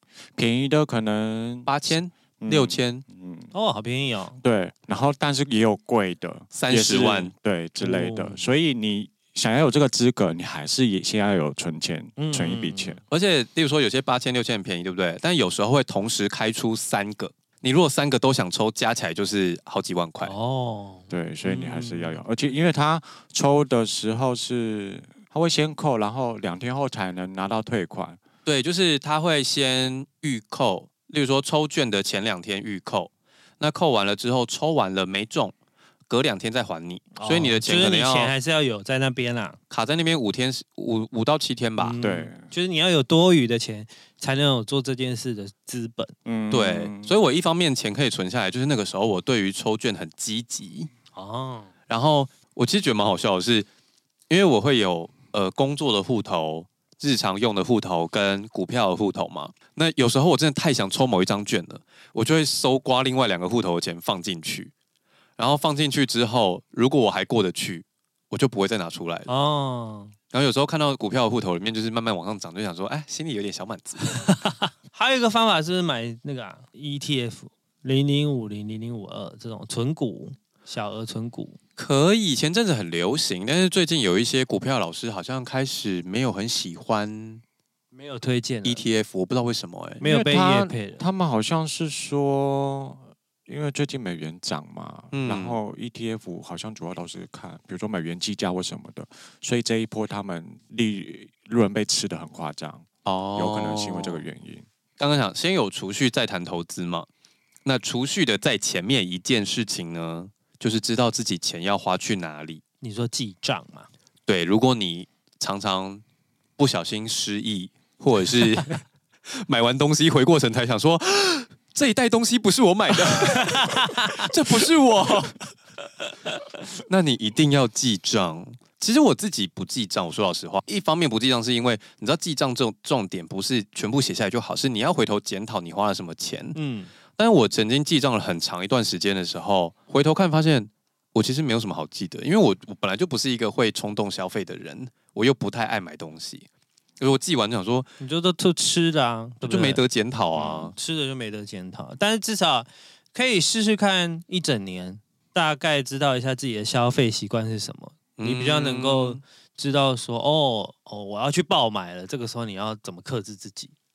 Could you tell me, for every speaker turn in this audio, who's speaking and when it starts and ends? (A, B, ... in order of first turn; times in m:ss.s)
0:00.4-0:01.7 A
0:01.6-0:03.0 B
0:02.4-0:03.5 A
0:03.5-0:04.4 C
0:04.4-0:13.0 A
0:06.5-0:07.3 B
0:07.8-0:08.5 C
0:12.2-0:13.0 C
0:13.1-0:20.3 B
0:20.2-0:22.2 C
0:21.1-0:28.2 A
0:28.4-0:35.5 B
0:36.1-0:38.3 B
0:37.1-0:39.6 C
0:39.7-0:42.0 B
0:41.8-0:46.1 C
0:42.0-0:42.4 A
0:46.2-0:47.1 A
0:46.5-0:50.9 B
0:51.1-0:51.7 C
0:51.9-0:53.7 B
0:54.3-1:04.7 B
1:05.4-1:09.3 B
1:09.3-1:10.1 C
1:10.3-1:14.2 B
1:14.1-1:21.6 C
1:21.8-1:27.4 B
1:27.9-1:28.8 C
1:28.6-1:30.0 B
1:30.0-1:31.1 C
1:30.0-1:44.6 A
1:35.1-1:35.6 B
1:43.0-1:44.2 B
1:45.0-1:47.1 B
1:47.6-1:52.6 B
1:52.8-1:53.9 C
1:54.3-1:56.0 B
1:56.6-2:05.4 B
2:03.1-2:04.1 C
2:06.8-2:16.6 B
2:16.6-2:16.9 C
2:17.2-2:26.4 B
2:27.0-2:27.9 B
2:28.0-2:29.8 C
2:29.4-2:30.8 B
2:30.4-2:43.7 C
2:38.2-2:39.2 B